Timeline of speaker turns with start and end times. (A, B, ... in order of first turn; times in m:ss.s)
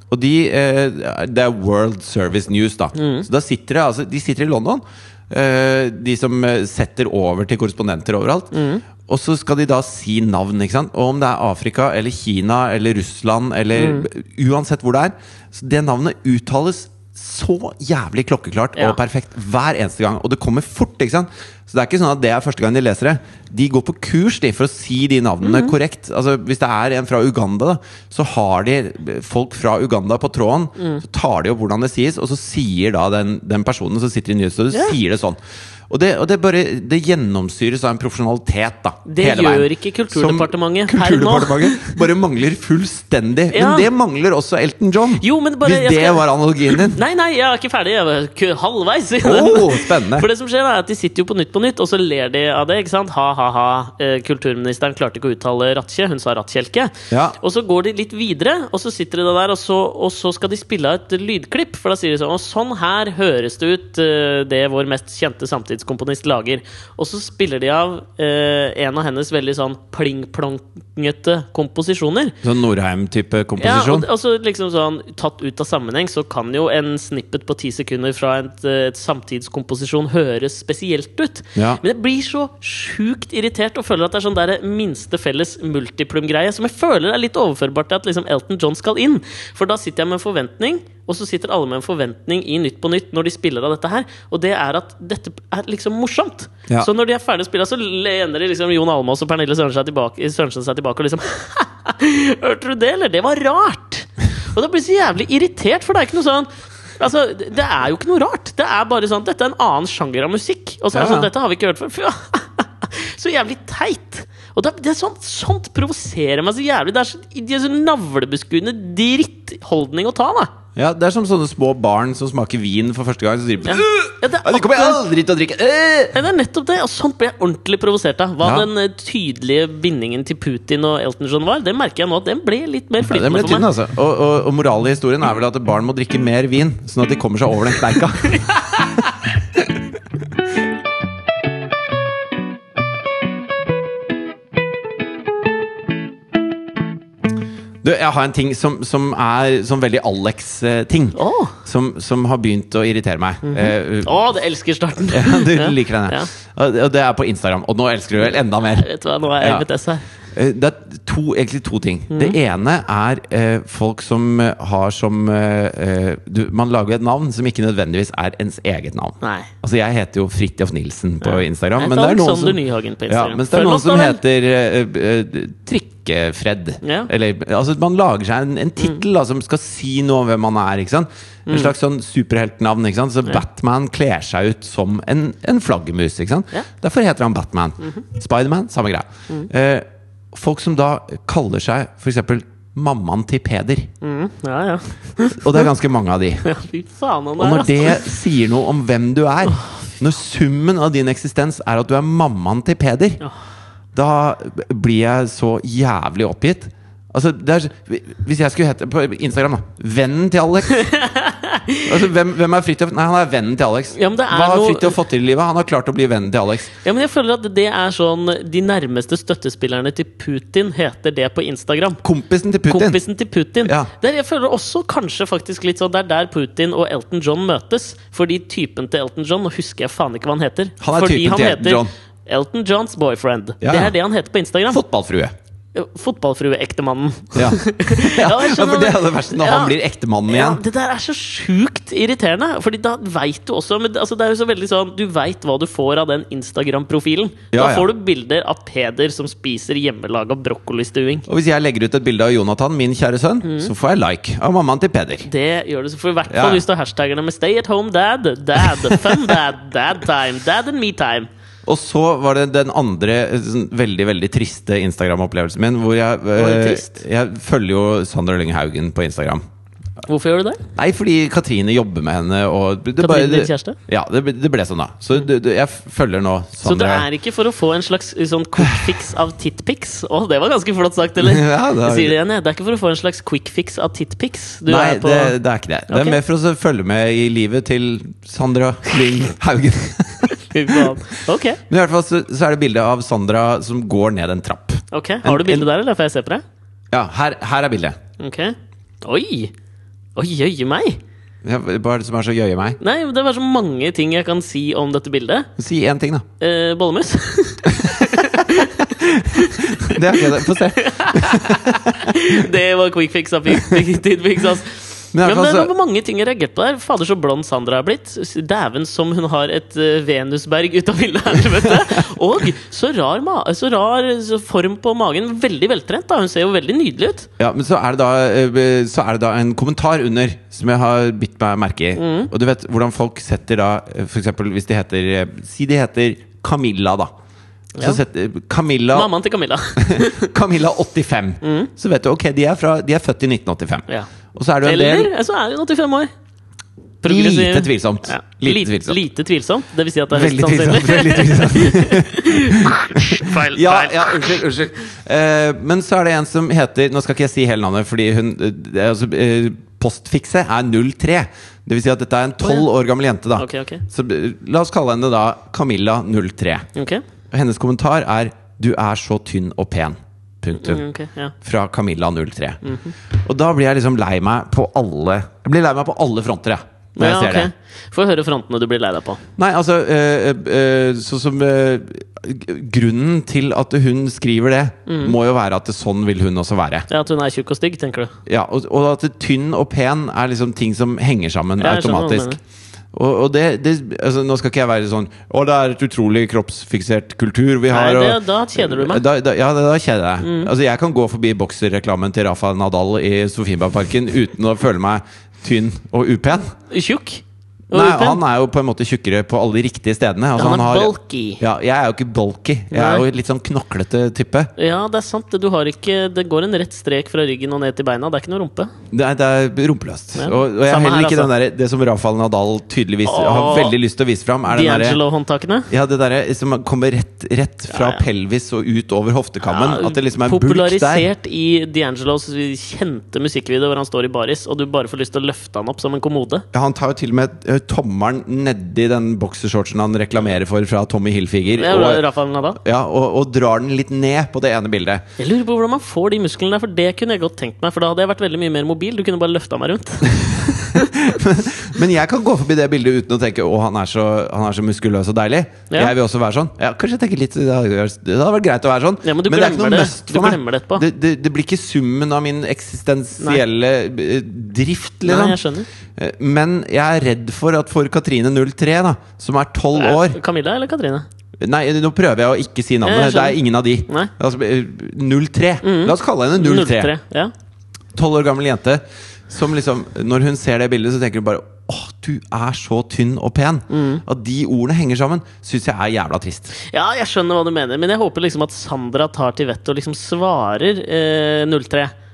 0:00.1-0:47.0 A
0:02.9-0:03.3 B
0:08.5-0:08.8 B
0:13.8-0:14.1 B
0:25.4-0:25.7 B
0:39.0-0:42.0 B
0:43.5-0:43.9 B
0:45.2-1:12.4 B
0:49.2-0:50.3 A
0:57.1-0:57.4 A
1:12.4-1:14.1 A
1:13.6-2:00.5 B
1:50.9-1:51.3 A
2:00.8-2:06.2 A
2:03.6-2:05.0 B
2:06.1-2:13.7 B
2:08.4-2:08.7 A
2:13.0-2:19.0 A
2:27.8-2:34.1 A
2:31.2-2:31.6 B
2:33.4-2:36.3 B
2:35.1-2:38.8 A
2:38.7-2:40.0 B
2:39.4-2:39.6 A
2:40.3-3:13.9 A
2:42.1-2:42.4 B
2:49.2-2:49.5 B
2:51.2-2:54.2 B
2:56.8-2:57.1 B
3:01.5-3:01.7 B
3:14.0-3:15.7 B
3:15.4-3:16.4 A
3:16.4-3:18.0 B
3:17.4-3:23.2 A
3:19.5-3:19.7 B
3:23.9-3:30.8 A
3:30.8-3:31.9 B
3:31.8-3:36.7 A
3:33.9-3:35.0 B
3:36.8-3:42.0 B
3:42.0-3:43.0 A
3:42.7-3:54.8 B
3:43.6-3:43.9 A
3:50.8-3:51.9 A
3:53.6-3:53.9 A
3:54.7-3:55.3 A
3:55.7-3:59.7 B
3:57.3-4:00.6 A
4:00.3-4:11.2 B
4:07.5-4:07.9 A
4:11.3-4:15.3 A
4:13.4-4:13.7 B
4:15.2-4:21.3 B
4:16.3-4:16.6 A
4:18.7-4:19.2 A
4:21.6-4:29.4 A
4:26.4-4:27.0 B
4:30.0-4:30.6 B
4:30.8-4:37.1 A
4:33.0-4:33.8 B
4:36.6-4:45.4 B
4:38.6-4:38.9 A
4:41.2-4:42.2 A
4:44.7-4:50.9 A
4:45.9-4:46.2 B
4:50.3-4:51.6 B
4:51.7-4:55.7 A
4:54.9-4:56.4 B
4:56.9-4:58.0 A
4:58.2-4:59.5 B
5:00.2-5:01.0 B
5:01.4-5:02.8 A
5:02.8-5:05.5 B
5:05.6-5:06.2 A
5:06.4-5:27.3 B
5:07.8-5:12.3 A
5:15.1-5:15.7 A
5:21.6-5:22.0 A
5:27.4-5:37.1 A
5:32.0-5:32.3 B
5:37.8-5:39.1 A
5:38.9-5:40.3 B
5:39.8-5:45.1 A
5:41.4-5:41.7 B
5:44.6-5:46.1 B
5:47.0-5:54.4 B
5:47.0-5:49.0 A
5:50.1-6:06.7 A
6:03.4-6:03.8 B
6:06.7-6:07.0 B
6:07.3-6:10.8 A
6:10.5-6:11.3 B
6:11.4-6:17.5 A
6:12.6-6:12.9 B
6:17.0-6:19.2 B
6:19.4-6:26.9 A
6:24.9-6:25.1 B
6:26.9-6:28.1 B
6:28.2-6:32.3 A
6:31.6-6:32.4 B
6:32.9-6:46.5 A
6:37.7-6:39.0 B
6:40.2-6:40.5 B
6:46.7-6:48.2 B
6:47.7-6:54.5 A
6:50.4-6:51.4 B
6:52.7-6:53.0 B
6:54.6-6:58.7 B
6:58.9-7:05.0 A
7:00.2-7:01.3 B
7:03.0-7:03.7 B
7:04.5-7:05.7 B
7:05.7-7:11.1 A
7:07.7-7:08.0 B
7:09.4-7:16.4 B
7:16.5-7:22.0 A
7:21.5-7:22.6 B
7:22.6-7:25.0 A
7:25.2-7:31.0 B
7:30.2-7:45.4 A
7:39.0-7:40.8 B
7:45.0-7:45.7 B
7:46.0-7:50.2 A
7:49.7-7:51.0 B
7:51.4-7:56.9 A
7:52.8-7:54.1 B
7:55.6-7:57.3 B
7:57.9-8:06.5 A
8:03.7-8:04.0 B
8:06.7-8:11.9 B